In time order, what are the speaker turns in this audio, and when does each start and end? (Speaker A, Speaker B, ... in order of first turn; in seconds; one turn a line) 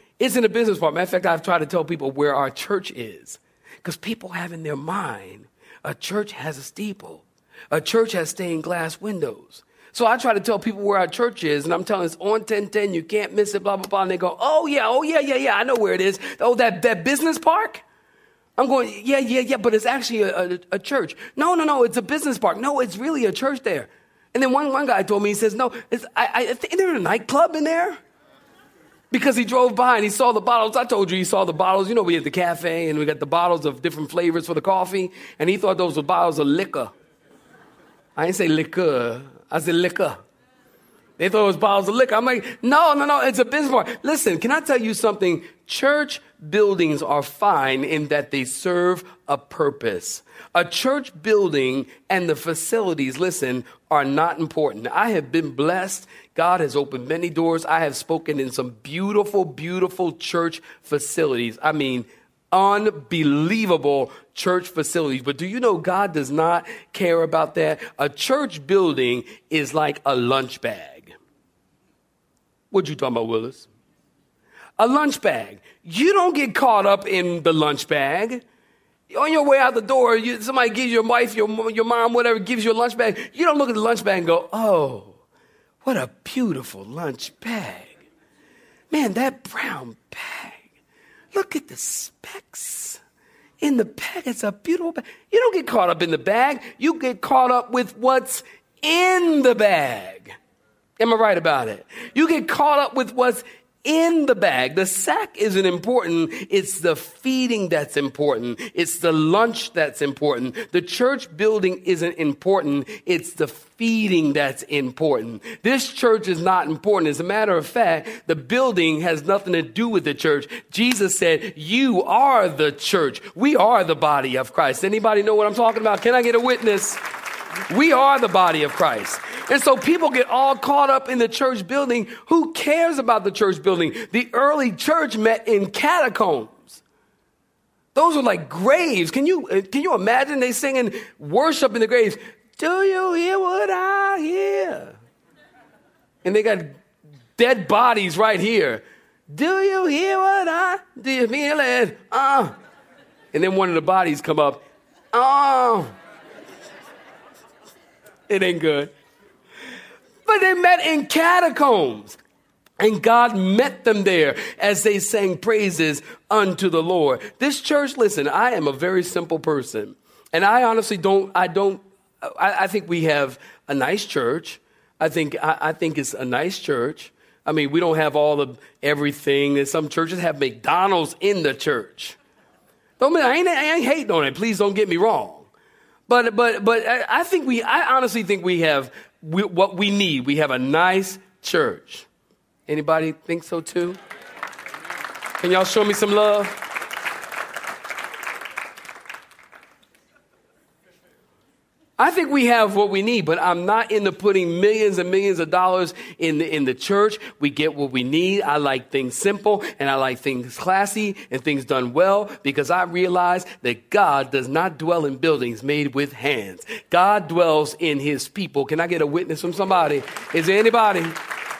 Speaker A: 0.2-17.8
Speaker A: 18.6-28.0
Speaker A: 29.1-36.9
Speaker A: 38.1-40.2
Speaker A: 41.2-71.1
Speaker A: 72.7-73.7
Speaker A: 74.8-78.4
Speaker A: 79.1-85.2
Speaker A: 85.8-88.0
Speaker A: 88.9-90.7
Speaker A: 91.3-93.0
Speaker A: 93.6-100.3
Speaker A: 101.0-127.0
Speaker A: 127.7-136.8
Speaker A: 137.9-144.9
Speaker A: 146.2-146.8
Speaker A: 147.4-152.5
Speaker A: 153.3-155.9
Speaker A: 158.3-158.9
Speaker A: 160.2-162.2
Speaker A: 162.8-182.2
Speaker A: 183.0-185.5
Speaker A: 186.1-192.1
Speaker A: 192.7-194.0
Speaker A: 195.4-196.6
Speaker A: 202.0-221.2